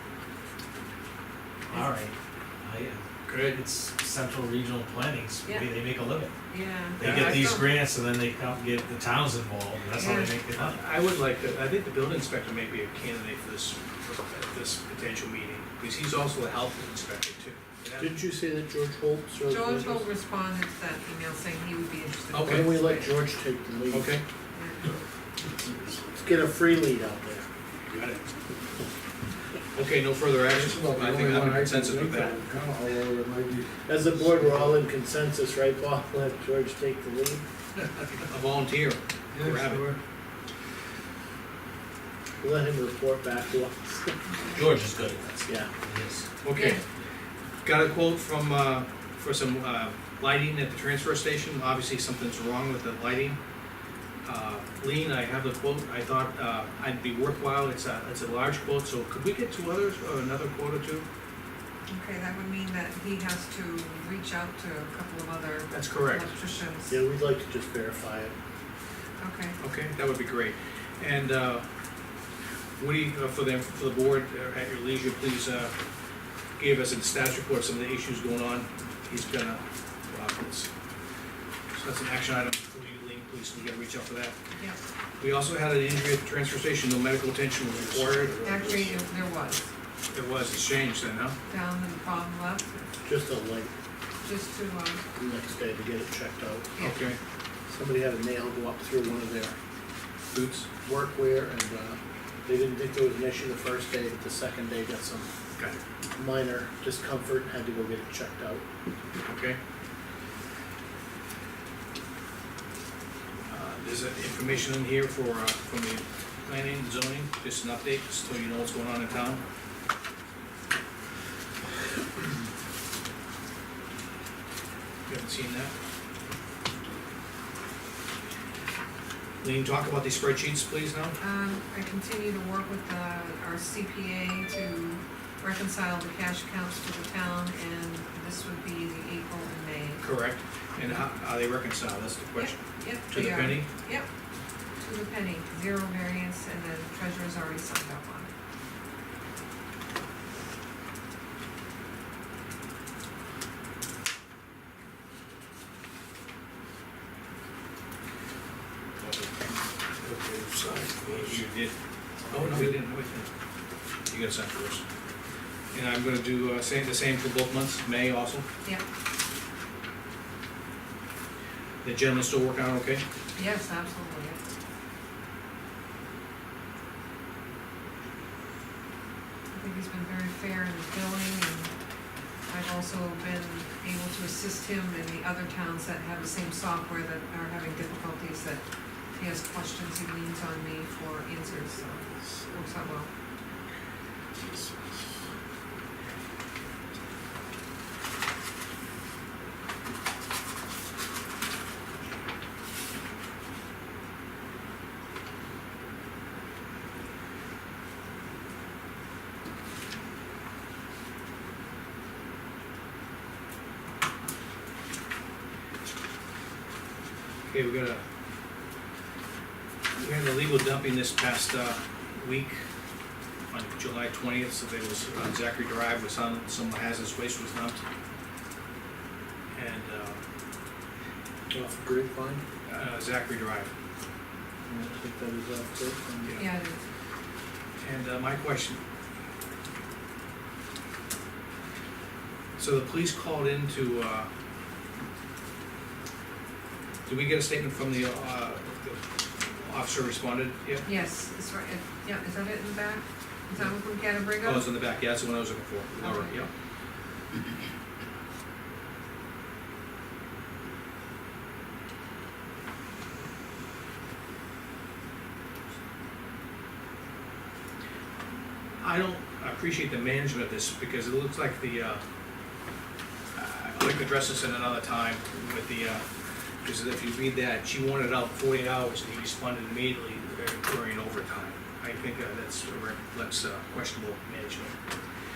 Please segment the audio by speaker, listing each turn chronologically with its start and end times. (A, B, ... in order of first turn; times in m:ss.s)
0:01.7-0:02.1 A
0:02.6-0:06.3 A
0:03.3-0:03.6 B
0:05.4-0:05.8 C
0:06.5-0:07.8 C
0:07.0-0:10.8 A
0:07.0-0:07.4 B
0:09.9-0:10.4 C
0:10.5-0:18.2 B
0:18.0-0:20.0 D
0:19.5-0:23.2 C
0:22.3-0:22.7 B
0:22.4-0:24.1 D
0:23.9-0:24.2 B
0:24.5-0:25.0 C
0:26.1-0:27.5 D
0:27.9-0:28.2 B
0:29.7-0:32.4 B
0:30.4-0:33.8 E
0:33.8-0:37.4 D
0:38.0-0:39.9 B
0:39.3-0:40.0 E
0:42.4-0:44.2 D
0:44.5-0:46.2 A
0:46.4-0:46.8 B
0:46.5-0:46.8 C
0:47.6-0:53.4 B
0:54.2-1:01.0 B
1:01.9-1:07.0 C
1:05.7-1:06.2 B
1:06.9-1:08.3 D
1:09.2-1:09.6 C
1:09.6-1:11.6 B
1:12.8-1:15.7 B
1:16.6-1:20.7 B
1:21.7-1:24.4 B
1:24.5-1:24.8 C
1:25.2-1:28.5 B
1:27.7-1:29.0 D
1:28.4-1:29.6 C
1:30.1-1:31.4 B
1:31.5-1:32.9 C
1:33.0-1:33.7 D
1:34.2-1:35.0 C
1:35.2-1:36.7 D
1:36.8-1:37.1 C
1:36.8-1:37.2 B
1:37.7-1:39.5 D
1:40.3-1:40.6 B
1:40.6-1:45.3 D
1:46.2-1:48.6 D
1:49.2-1:49.6 B
1:53.5-1:59.4 B
2:05.1-2:05.7 B
2:09.4-2:11.2 B
2:11.2-2:20.0 C
2:20.0-2:23.7 B
2:22.4-2:24.1 C
2:24.8-2:28.3 C
2:39.0-2:41.7 B
2:42.3-2:43.3 B
2:44.1-2:44.8 B
2:45.7-2:48.5 B
2:51.8-2:53.0 B
2:53.4-2:54.4 C
2:59.5-3:01.7 C
3:02.5-3:08.6 C
3:09.1-3:13.1 C
3:37.5-3:38.0 B
3:40.0-3:42.6 B
3:43.5-3:47.8 B
3:49.5-3:50.2 B
3:51.5-3:52.4 D
3:52.6-3:53.7 B
3:54.7-3:56.4 D
3:56.3-3:56.8 C
3:57.8-3:58.8 B
4:02.6-4:04.3 B
4:07.1-4:10.8 B
4:10.8-4:14.7 C
4:14.4-4:16.5 B
4:16.0-4:16.5 C
4:28.8-4:32.0 B
4:33.3-4:36.0 B
4:36.6-4:44.8 B